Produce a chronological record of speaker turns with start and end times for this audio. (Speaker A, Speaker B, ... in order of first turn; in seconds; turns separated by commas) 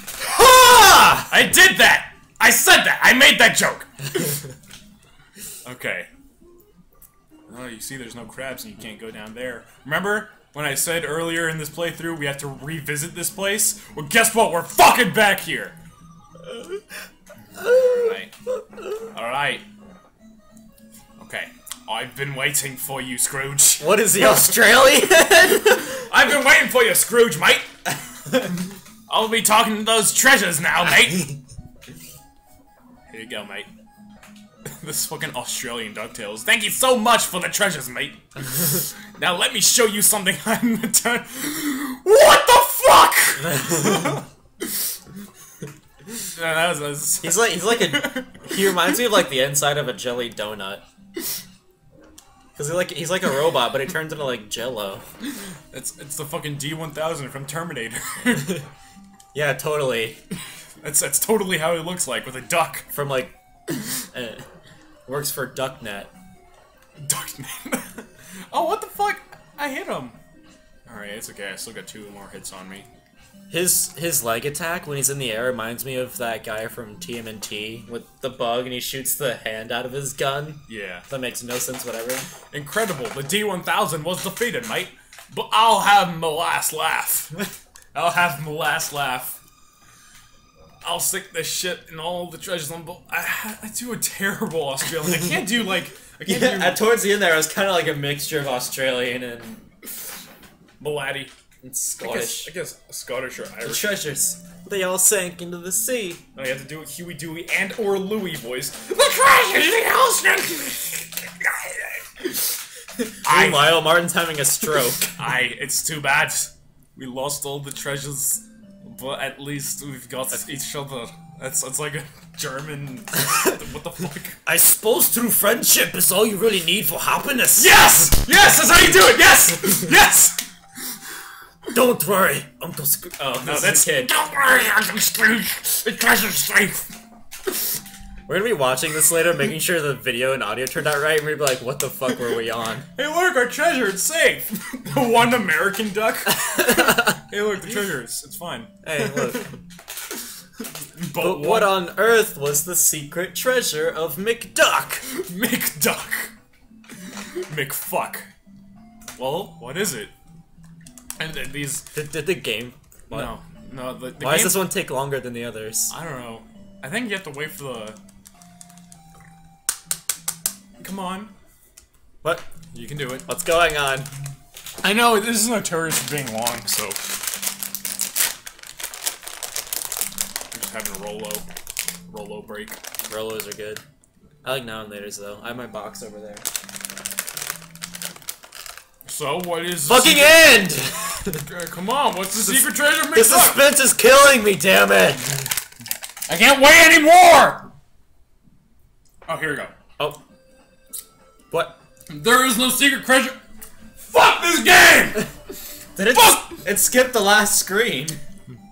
Speaker A: 0.2-1.3, Speaker B: 1.3-4.4, Speaker B: 5.6-6.1, Speaker B: 7.5-15.8, Speaker A: 16.4-16.8, Speaker B: 17.5-18.3, Speaker A: 17.6-18.2, Speaker B: 19.1-19.7, Speaker B: 21.2-24.6, Speaker A: 23.8-26.1, Speaker B: 25.8-27.7, Speaker B: 29.1-31.4, Speaker B: 33.1-33.7, Speaker B: 34.6-44.9, Speaker A: 43.5-44.2, Speaker B: 46.1-49.0, Speaker A: 47.2-50.8, Speaker A: 52.5-55.0, Speaker B: 55.4-58.6, Speaker A: 59.3-60.2, Speaker B: 60.8-62.9, Speaker A: 62.9-63.4, Speaker A: 64.1-64.4, Speaker A: 65.0-66.1, Speaker B: 67.0-70.2, Speaker B: 70.8-72.9, Speaker A: 73.5-82.3, Speaker B: 80.7-81.1, Speaker B: 82.5-89.4, Speaker B: 90.8-96.8, Speaker A: 96.2-99.6, Speaker B: 100.8-101.3, Speaker A: 101.6-102.5, Speaker B: 102.0-104.0, Speaker A: 103.6-106.2, Speaker B: 106.3-112.5, Speaker A: 113.0-115.1, Speaker B: 113.2-113.9, Speaker B: 115.1-124.4, Speaker A: 124.5-127.8, Speaker B: 127.5-130.5, Speaker A: 131.7-134.1, Speaker B: 133.2-136.9, Speaker A: 138.3-142.9, Speaker B: 142.9-149.4, Speaker A: 146.7-147.1, Speaker A: 148.8-149.6, Speaker B: 150.6-151.9, Speaker A: 151.2-155.1, Speaker B: 155.0-156.3, Speaker B: 157.0-158.3, Speaker B: 159.2-160.1, Speaker B: 161.2-161.9, Speaker A: 161.9-163.3, Speaker B: 163.1-164.7, Speaker A: 164.2-165.9, Speaker B: 165.9-168.0, Speaker B: 170.8-171.3, Speaker A: 172.2-172.5, Speaker B: 172.7-173.3, Speaker A: 173.2-174.1, Speaker B: 174.8-177.2, Speaker B: 180.5-181.5, Speaker B: 182.1-182.8, Speaker A: 183.1-183.8, Speaker A: 184.4-186.4, Speaker B: 189.0-190.6, Speaker A: 189.8-191.5, Speaker B: 191.4-193.7, Speaker A: 193.1-195.5, Speaker B: 196.3-197.7, Speaker B: 199.2-199.7, Speaker A: 201.5-201.8, Speaker B: 202.1-203.4, Speaker B: 204.0-205.3, Speaker A: 205.9-208.2, Speaker B: 206.1-206.6